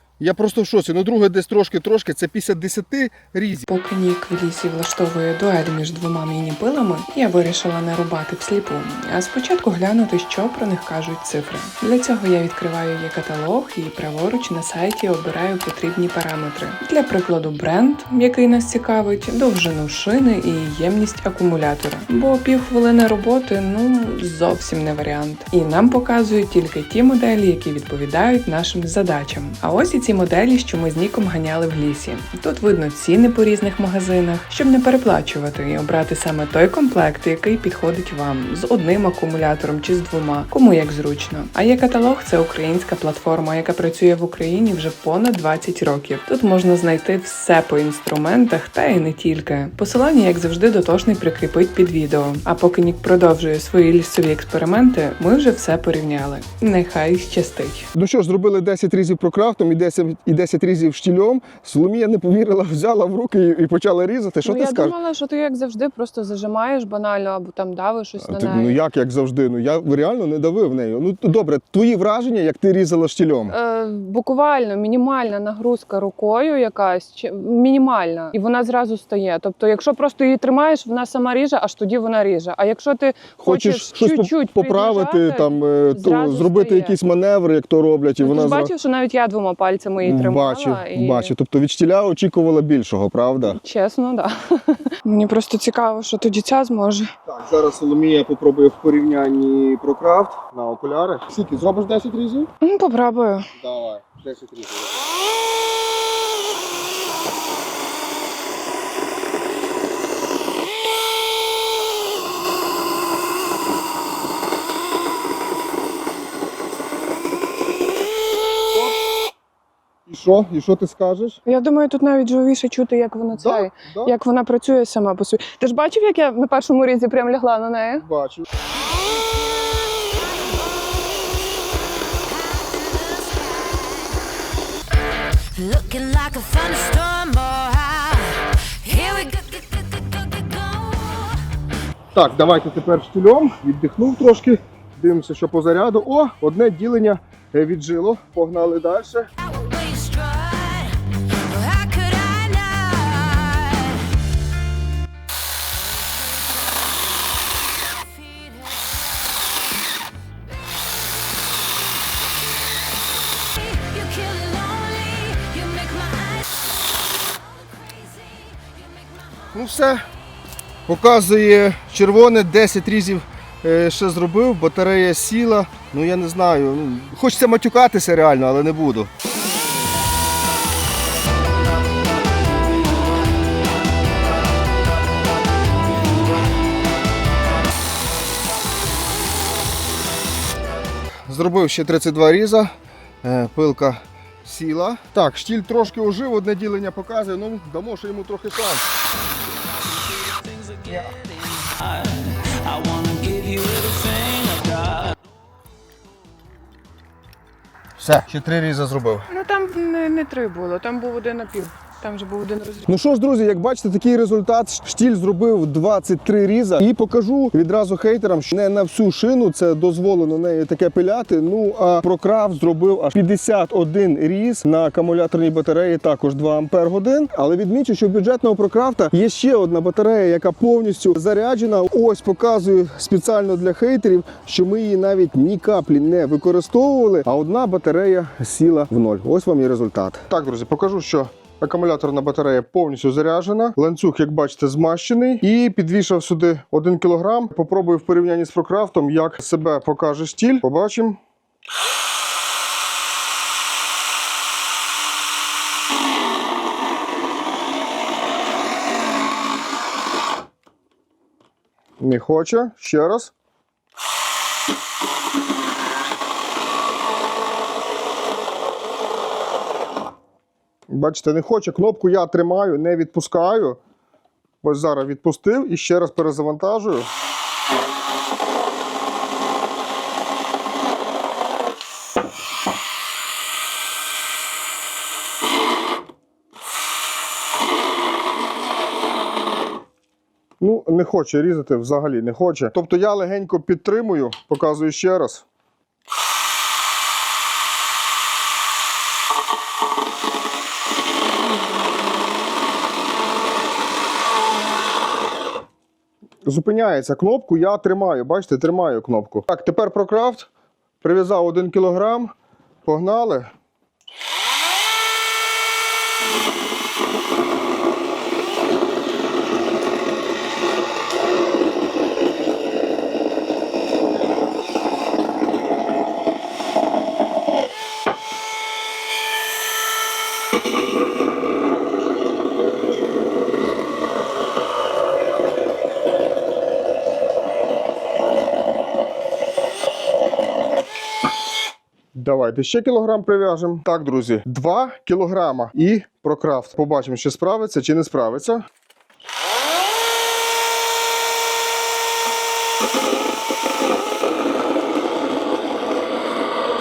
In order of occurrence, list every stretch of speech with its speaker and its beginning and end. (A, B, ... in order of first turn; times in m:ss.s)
0:00.2-0:03.7 A
0:03.7-0:57.9 B
0:57.9-1:05.0 A
1:04.4-1:08.8 C
1:08.2-1:13.5 A
1:13.5-1:26.9 C
1:23.4-1:28.7 A
1:28.2-1:31.3 C
1:30.0-1:33.6 A
1:33.5-1:37.1 C
1:37.2-1:42.5 A
1:42.6-1:43.5 C
1:43.5-1:45.0 A
2:00.0-2:01.4 A
2:01.4-2:08.0 C
2:03.3-2:04.1 A
2:08.0-2:08.5 A
2:09.0-2:11.4 D
2:12.2-2:14.1 D
2:15.5-2:21.4 D
2:22.1-2:29.3 A
2:29.4-2:34.1 D
2:38.0-2:39.1 D
2:43.5-2:46.5 D
2:47.6-2:49.2 D
2:49.5-2:50.0 A
2:50.8-2:59.1 A
3:11.3-3:12.7 A
3:13.2-3:18.9 A
3:20.4-3:25.1 D
3:28.0-3:29.3 A
3:29.3-3:32.9 C
3:32.8-4:11.2 A
4:22.0-4:23.3 A
4:30.9-4:33.8 A
4:34.6-4:37.1 A
4:50.6-4:55.4 A
5:06.4-5:10.5 A
5:11.0-5:12.3 A
5:12.8-5:13.5 A
5:42.1-5:48.6 A